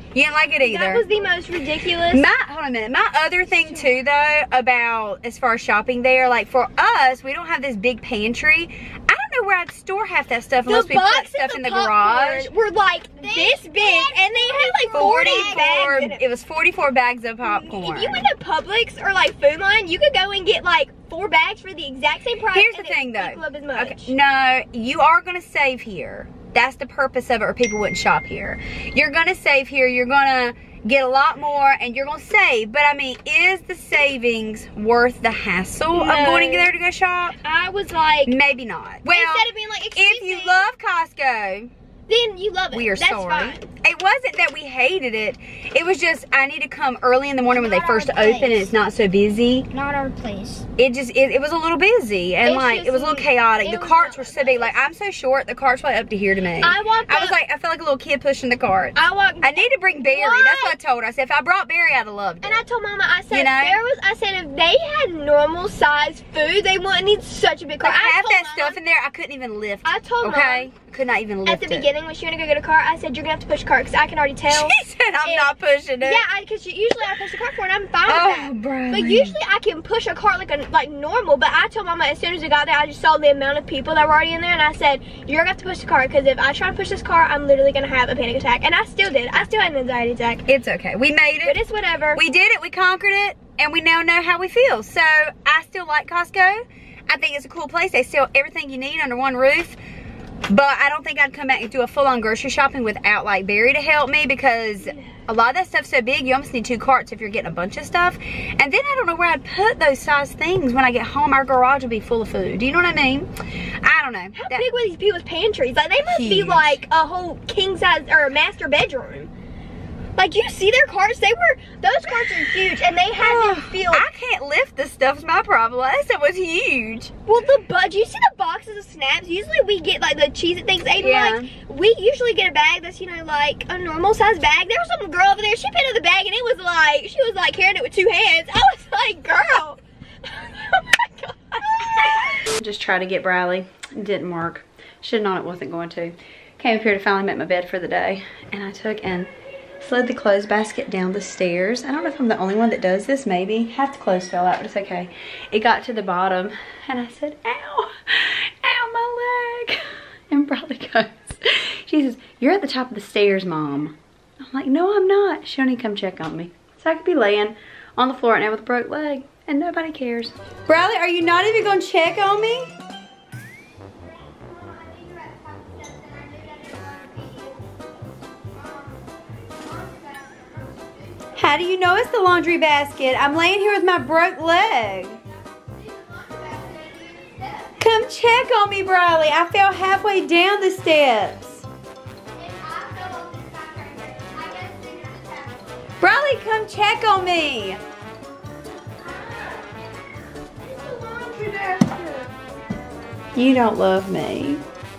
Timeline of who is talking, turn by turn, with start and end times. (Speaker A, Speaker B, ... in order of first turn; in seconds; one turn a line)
Speaker A: 0.1-1.1
Speaker B: 0.6-2.3
Speaker A: 2.1-12.5
Speaker B: 10.7-16.2
Speaker C: 13.2-15.8
Speaker A: 14.9-18.3
Speaker B: 17.4-24.1
Speaker A: 22.5-37.4
Speaker B: 35.9-36.7
Speaker B: 37.4-38.4
Speaker A: 38.2-41.7
Speaker B: 39.1-40.7
Speaker B: 42.1-43.7
Speaker A: 42.7-49.7
Speaker C: 47.5-48.7
Speaker C: 49.7-50.7
Speaker A: 50.8-62.6
Speaker B: 52.4-54.8
Speaker B: 56.6-57.4
Speaker B: 59.0-60.8
Speaker B: 62.4-68.8
Speaker A: 63.3-63.8
Speaker A: 67.8-71.9
Speaker B: 69.8-70.7
Speaker B: 71.5-90.5
Speaker A: 74.5-76.2
Speaker A: 78.1-79.3
Speaker A: 90.5-91.6
Speaker B: 91.4-92.2
Speaker A: 92.2-99.8
Speaker A: 100.5-113.3
Speaker A: 113.8-114.7
Speaker B: 114.3-119.3
Speaker A: 116.1-116.8
Speaker B: 120.2-124.1
Speaker A: 123.1-127.1
Speaker B: 127.3-142.4
Speaker A: 131.0-131.5
Speaker A: 142.6-149.3
Speaker A: 149.8-172.7
Speaker C: 174.0-177.7
Speaker C: 178.5-181.5
Speaker A: 181.4-185.2
Speaker C: 185.4-187.8
Speaker A: 187.8-191.7
Speaker C: 192.3-195.9
Speaker A: 196.0-197.8
Speaker B: 199.0-199.6
Speaker B: 200.6-202.3
Speaker A: 203.3-204.6